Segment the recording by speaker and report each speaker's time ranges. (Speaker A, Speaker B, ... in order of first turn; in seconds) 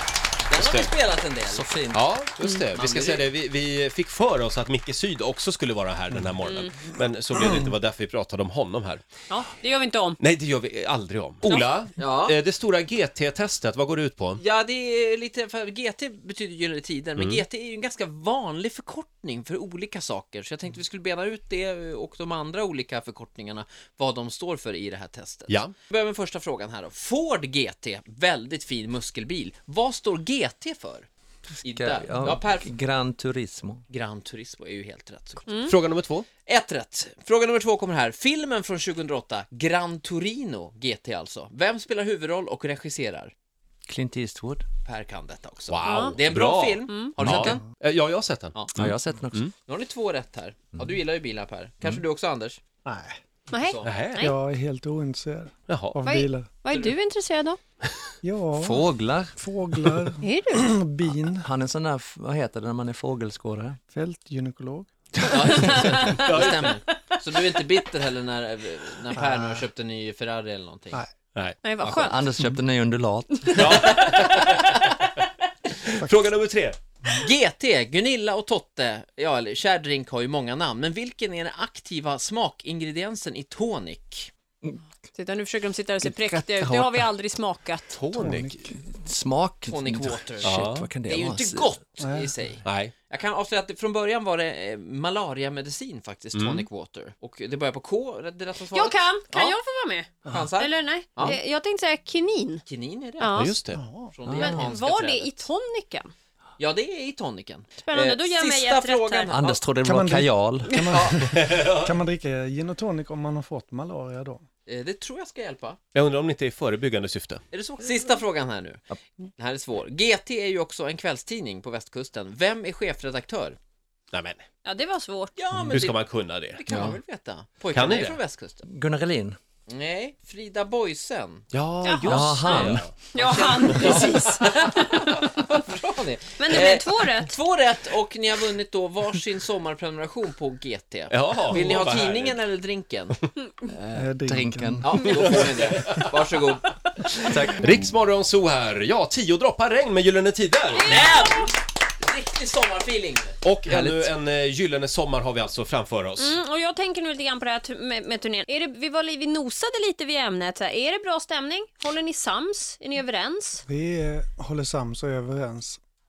Speaker A: 0.5-1.7, 2.8-3.3, 12.0-12.3, 14.4-31.1, 31.6-32.7, 33.9-35.5, 36.5-43.3, 44.8-47.6, 48.5-48.9, 49.6-52.6, 53.5-53.9, 65.2-71.0, 77.1-84.3, 89.7-99.6, 100.2-101.4, 102.7-103.3, 104.1-105.5, 106.6-109.6, 110.9-111.3, 114.7-115.8, 117.5-118.8, 119.3-123.6, 125.3-128.7, 129.7-131.5, 133.0-144.1, 144.8-146.8, 150.8-154.1
Speaker B: 0.5-0.9, 1.9-9.0, 10.2-14.4, 17.2-17.4, 25.5-25.7, 35.6-36.2, 45.7-49.5, 53.8-54.2, 55.7-56.0, 66.1-66.7, 73.5-74.9, 75.8-76.8, 87.9-88.6, 90.4-90.9, 92.6-92.9, 96.3-96.7, 103.3-103.8, 111.3-111.9, 115.9-117.4, 124.1-124.4, 125.6-126.9, 127.7-128.2, 131.5-132.9, 141.1-142.4, 147.1-150.9, 153.4-156.4
Speaker C: 1.5-2.1, 31.6-33.8, 43.9-44.7, 48.8-49.5, 58.6-59.3, 61.2-63.8, 71.8-73.7, 86.0-87.1, 88.7-91.7, 104.3-104.6, 109.3-110.7, 126.7-126.9, 128.7-129.4, 132.1-132.9, 144.3-144.9
Speaker D: 6.5-6.7, 9.3-10.2, 35.5-35.7, 45.8-46.2, 46.8-47.3, 53.5-54.4, 56.0-57.6, 60.2-60.7, 65.5-66.3, 71.6-72.2, 73.4-73.9, 85.2-88.0, 98.7-102.6, 103.2-103.6, 104.3-106.1, 107.8-109.3, 124.6-125.3, 131.8-135.2, 136.4-137.3, 150.7-151.5, 156.2-163.6
Speaker E: 52.8-53.2, 54.2-56.6, 58.2-61.4, 63.9-65.3, 69.1-69.6, 88.1-88.7, 92.0-92.3, 103.7-104.2, 109.8-114.4, 143.9-146.0, 163.7-165.8